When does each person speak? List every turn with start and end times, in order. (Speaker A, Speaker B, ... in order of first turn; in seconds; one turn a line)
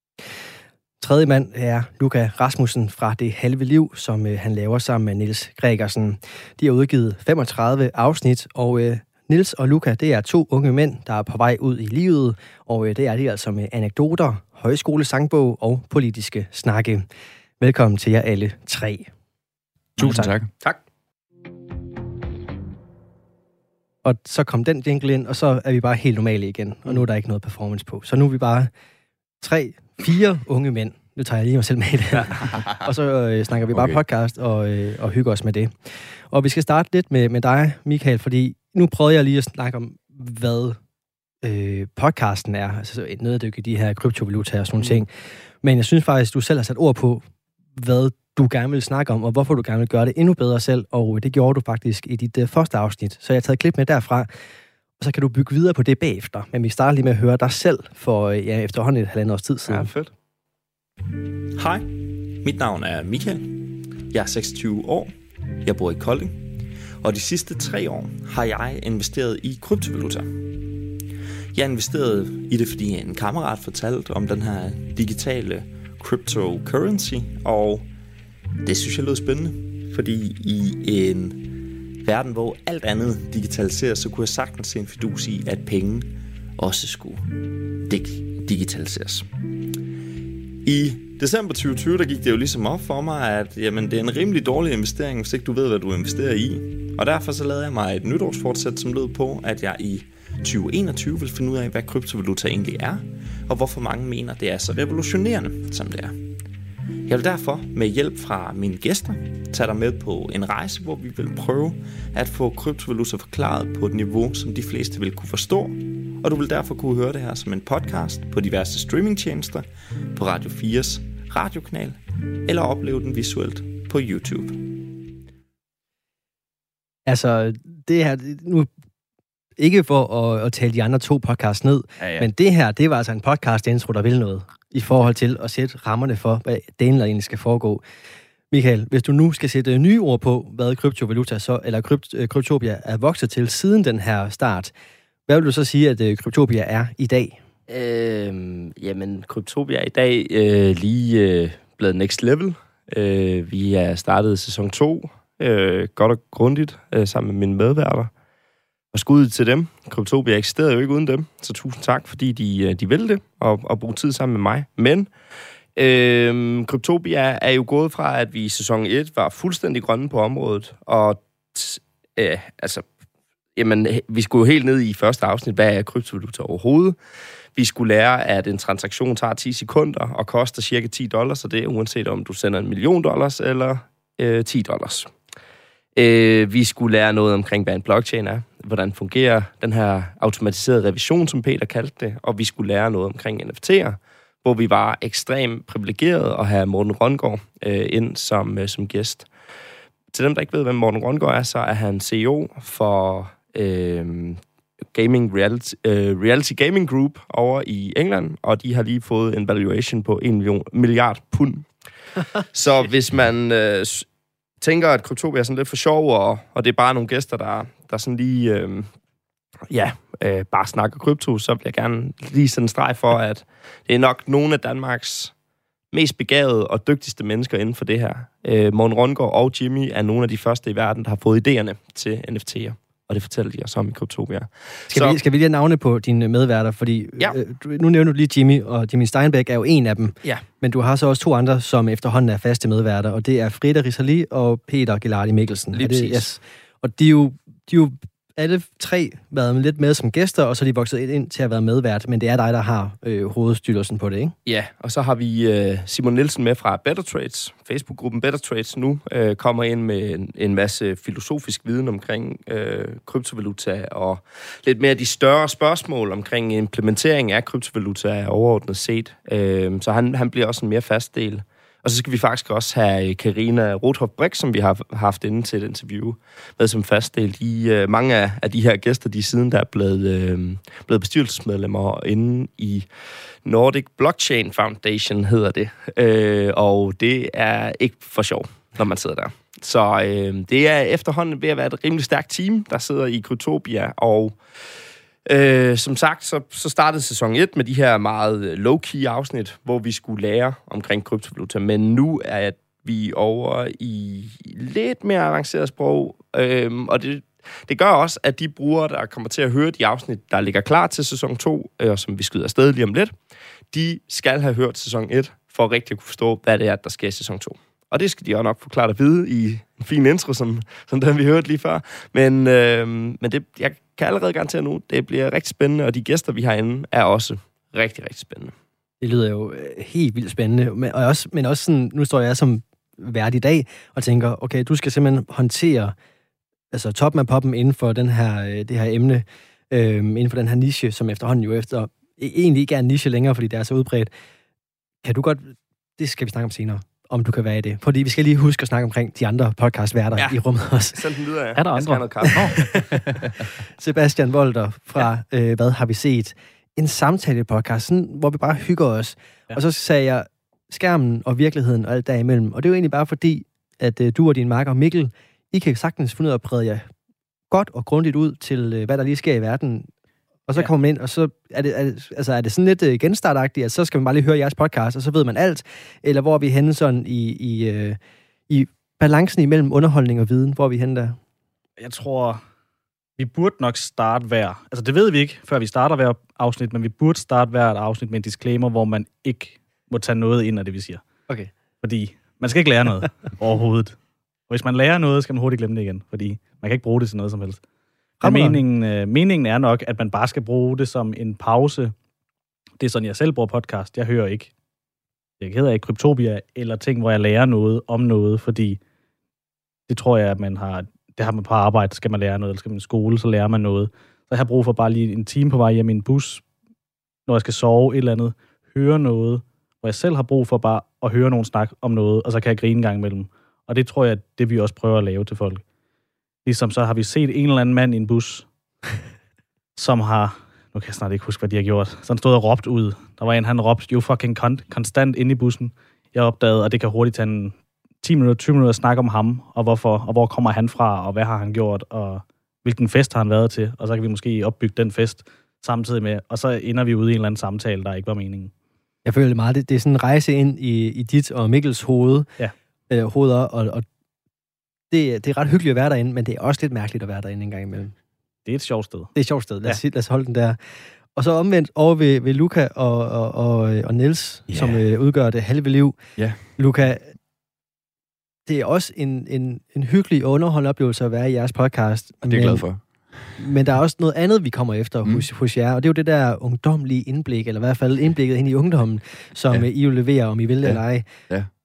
Speaker A: 1.0-17.1
Speaker A: 17.6-19.1
Speaker B: 20.0-20.5
Speaker A: 20.0-20.3
Speaker A: 24.0-28.7
Speaker A: 29.4-35.7
Speaker B: 33.7-34.0
Speaker A: 36.3-40.8
Speaker A: 41.4-45.1
Speaker A: 45.6-47.2
Speaker A: 47.8-54.3
Speaker A: 55.0-59.9
Speaker C: 59.7-60.1
Speaker D: 61.5-66.5
Speaker D: 67.0-70.9
Speaker D: 71.5-77.9
Speaker D: 78.6-89.7
Speaker D: 90.6-106.2
Speaker D: 107.1-125.1
Speaker A: 127.1-128.7
Speaker A: 129.6-137.8
Speaker B: 132.0-132.3
Speaker A: 138.5-144.7
Speaker A: 145.3-147.4
Speaker C: 147.7-158.1
Speaker C: 158.9-165.1
Speaker C: 165.8-172.9
Speaker C: 173.6-177.0
Speaker C: 177.5-185.1
Speaker C: 186.0-199.3
Speaker C: 200.1-204.4
Speaker C: 204.9-211.7
Speaker C: 212.4-214.1
Speaker C: 214.6-218.9
Speaker C: 219.7-225.3
Speaker C: 225.9-235.2
Speaker A: 234.9-254.3
Speaker C: 245.7-246.3
Speaker C: 254.5-282.9
Speaker C: 283.4-294.4
Speaker C: 295.2-313.1
Speaker C: 313.7-328.5
Speaker A: 329.0-335.9
Speaker A: 336.7-344.1
Speaker A: 345.0-351.0
Speaker C: 350.9-352.5
Speaker E: 351.6-353.3
Speaker A: 352.2-353.1
Speaker A: 353.8-366.9
Speaker A: 367.5-369.9
Speaker A: 370.5-378.0
Speaker A: 378.5-381.2
Speaker E: 381.8-382.4
Speaker E: 383.2-391.0
Speaker E: 391.8-394.0
Speaker E: 394.5-397.6
Speaker A: 398.2-398.6
Speaker E: 398.2-401.9
Speaker E: 402.8-404.5
Speaker E: 405.4-408.8
Speaker E: 409.9-416.4
Speaker E: 417.2-425.6
Speaker E: 426.4-428.5
Speaker E: 429.8-448.5
Speaker A: 449.0-452.3
Speaker A: 452.9-453.8
Speaker A: 454.9-457.9
Speaker E: 458.4-459.8
Speaker A: 459.1-460.6
Speaker A: 461.1-466.0
Speaker B: 464.5-464.8
Speaker A: 466.6-467.1
Speaker A: 468.4-472.6
Speaker B: 472.2-472.8
Speaker A: 473.4-481.1
Speaker B: 480.6-481.5